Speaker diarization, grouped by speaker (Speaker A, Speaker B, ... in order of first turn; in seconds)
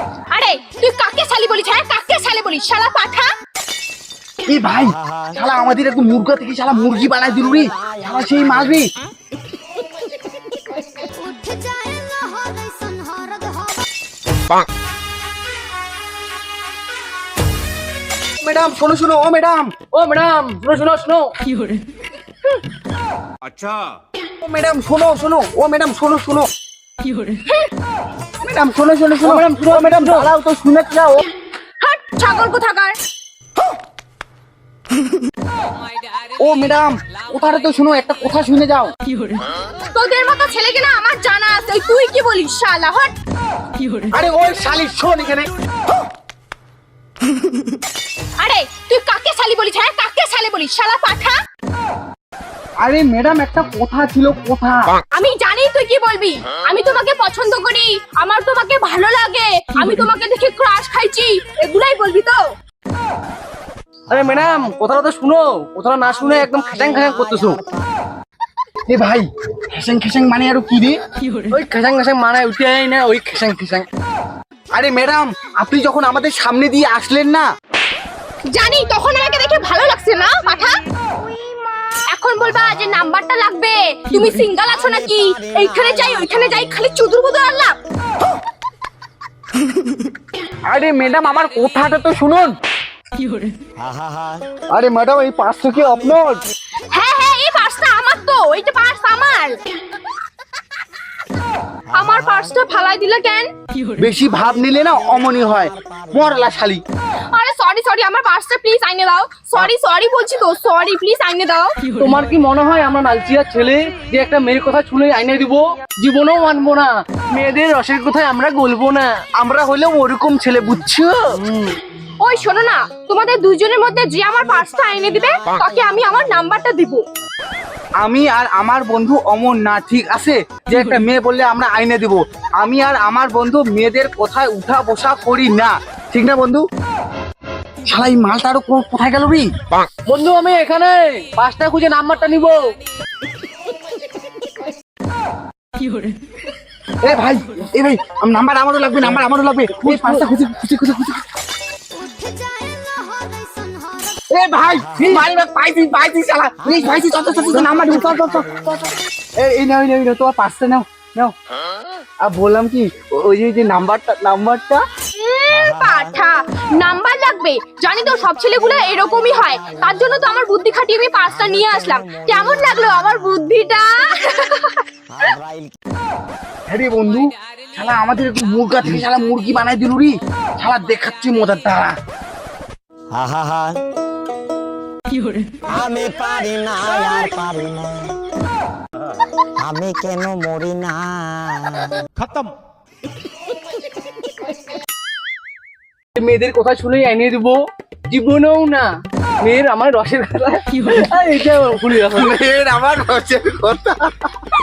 Speaker A: 0.3-3.3, 31.8-33.0, 39.9-43.1, 48.4-51.4, 55.1-62.5, 78.5-80.8, 82.0-87.8, 96.9-99.6, 101.9-103.5, 107.3-112.0, 122.2-127.0, 165.2-174.8
Speaker B: 4.5-8.9, 18.4-19.7, 24.4-26.5, 28.4-31.2, 36.4-38.9, 44.1-45.5, 52.8-54.9, 68.9-71.0, 74.7-77.5, 90.7-92.5, 94.7-96.4, 104.0-106.8, 119.4-121.2, 128.0-136.6, 137.8-139.5, 147.0-151.2, 154.3-161.3, 162.2-164.8, 176.7-181.9, 202.1-204.2
Speaker C: 19.9-21.3, 23.4-23.9, 29.2-30.3, 64.1-67.6, 71.5-73.9, 112.0-119.1, 121.4-121.8, 140.1-142.6, 192.2-192.5, 196.2-197.6, 198.1-198.9, 199.4-202.3
Speaker D: 66.3-67.7, 84.9-85.9, 93.8-94.5, 157.0-158.6, 165.5-166.1, 168.3-169.5, 171.3-173.0, 175.1-175.7, 183.1-183.8, 185.6-188.2, 189.6-192.1